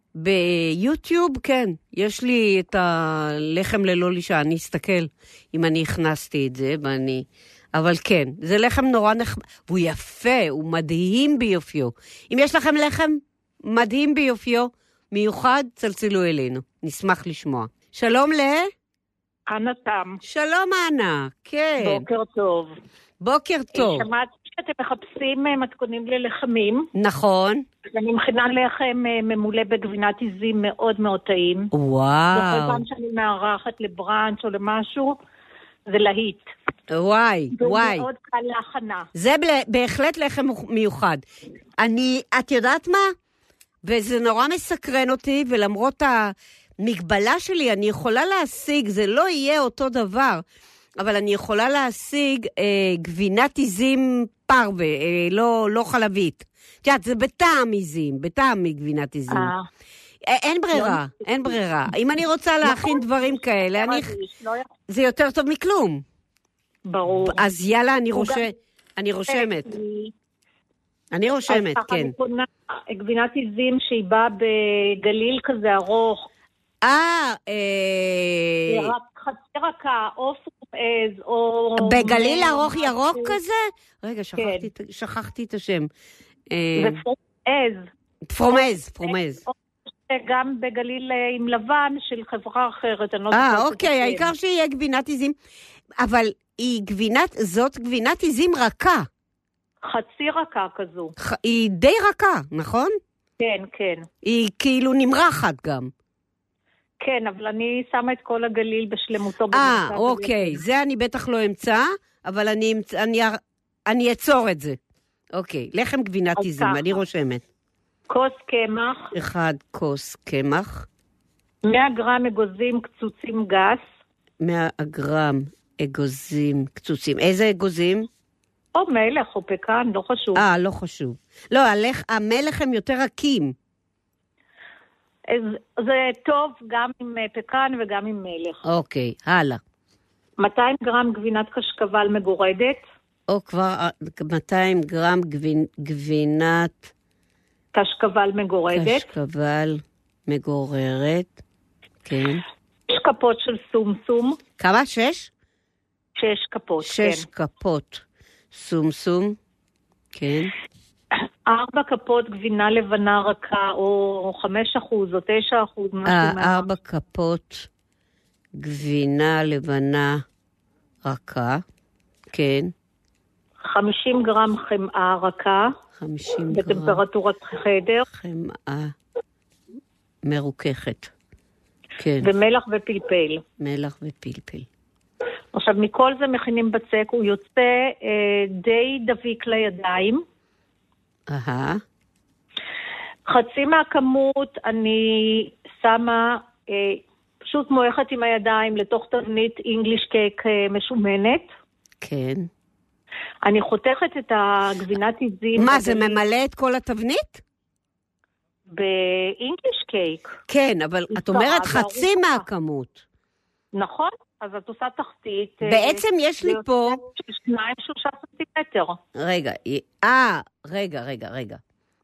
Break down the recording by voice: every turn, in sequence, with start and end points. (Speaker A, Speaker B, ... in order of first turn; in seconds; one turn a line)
Speaker A: 0.1-18.7
Speaker B: 19.5-20.2
Speaker A: 20.2-22.1
Speaker B: 21.8-22.7
Speaker A: 23.2-24.1
Speaker B: 23.7-26.9
Speaker A: 26.9-27.6
Speaker B: 27.9-31.7
Speaker A: 31.7-32.8
Speaker B: 32.3-35.2
Speaker B: 35.9-36.5
Speaker A: 36.9-38.1
Speaker B: 37.5-39.1
Speaker A: 39.1-41.2
Speaker A: 41.8-43.1
Speaker A: 43.8-50.4
Speaker A: 51.0-59.5
Speaker B: 59.3-59.6
Speaker A: 60.3-64.1
Speaker B: 60.7-61.5
Speaker B: 62.6-64.7
Speaker A: 64.9-66.0
Speaker B: 66.9-67.5
Speaker A: 67.2-69.7
Speaker B: 68.1-68.5
Speaker B: 69.3-70.1
Speaker A: 71.1-72.1
Speaker B: 71.5-76.3
Speaker A: 76.8-78.9
Speaker B: 78.7-83.4
Speaker A: 81.8-85.9
Speaker B: 84.4-84.7
Speaker A: 86.5-87.0
Speaker B: 86.8-87.9
Speaker A: 88.3-89.4
Speaker B: 88.5-94.3
Speaker A: 93.3-95.3
Speaker A: 96.0-99.1
Speaker B: 99.8-101.1
Speaker A: 101.2-103.0
Speaker B: 103.4-104.0
Speaker A: 104.2-105.9
Speaker B: 107.0-110.6
Speaker A: 109.5-114.8
Speaker A: 115.3-117.4
Speaker B: 116.4-117.0
Speaker B: 118.1-119.1
Speaker A: 119.1-120.9
Speaker B: 121.6-123.8
Speaker A: 124.4-128.1
Speaker B: 128.8-130.4
Speaker A: 130.4-133.6
Speaker B: 135.3-138.6
Speaker A: 138.7-139.6
Speaker B: 140.4-142.8
Speaker A: 143.3-146.9
Speaker B: 147.7-149.1
Speaker A: 148.7-151.4
Speaker A: 152.1-152.4
Speaker B: 152.9-154.4
Speaker A: 154.6-155.3
Speaker B: 156.2-157.2
Speaker A: 156.8-159.4
Speaker A: 160.1-160.5
Speaker B: 161.5-166.7
Speaker A: 166.1-167.7
Speaker A: 168.6-170.2
Speaker A: 171.1-171.6
Speaker A: 172.3-172.7
Speaker B: 173.7-175.7
Speaker A: 176.0-177.0
Speaker B: 176.5-178.1
Speaker A: 178.1-178.9
Speaker A: 180.2-181.1
Speaker A: 182.0-182.3
Speaker B: 182.2-183.4
Speaker A: 183.6-184.7
Speaker B: 185.5-190.2
Speaker A: 191.3-191.8
Speaker B: 193.3-201.5
Speaker A: 202.0-202.5
Speaker B: 203.4-206.2
Speaker A: 205.6-207.4
Speaker B: 208.7-210.3
Speaker A: 210.5-213.0
Speaker B: 211.1-212.4
Speaker B: 213.7-219.0
Speaker A: 215.6-217.0
Speaker A: 219.2-221.6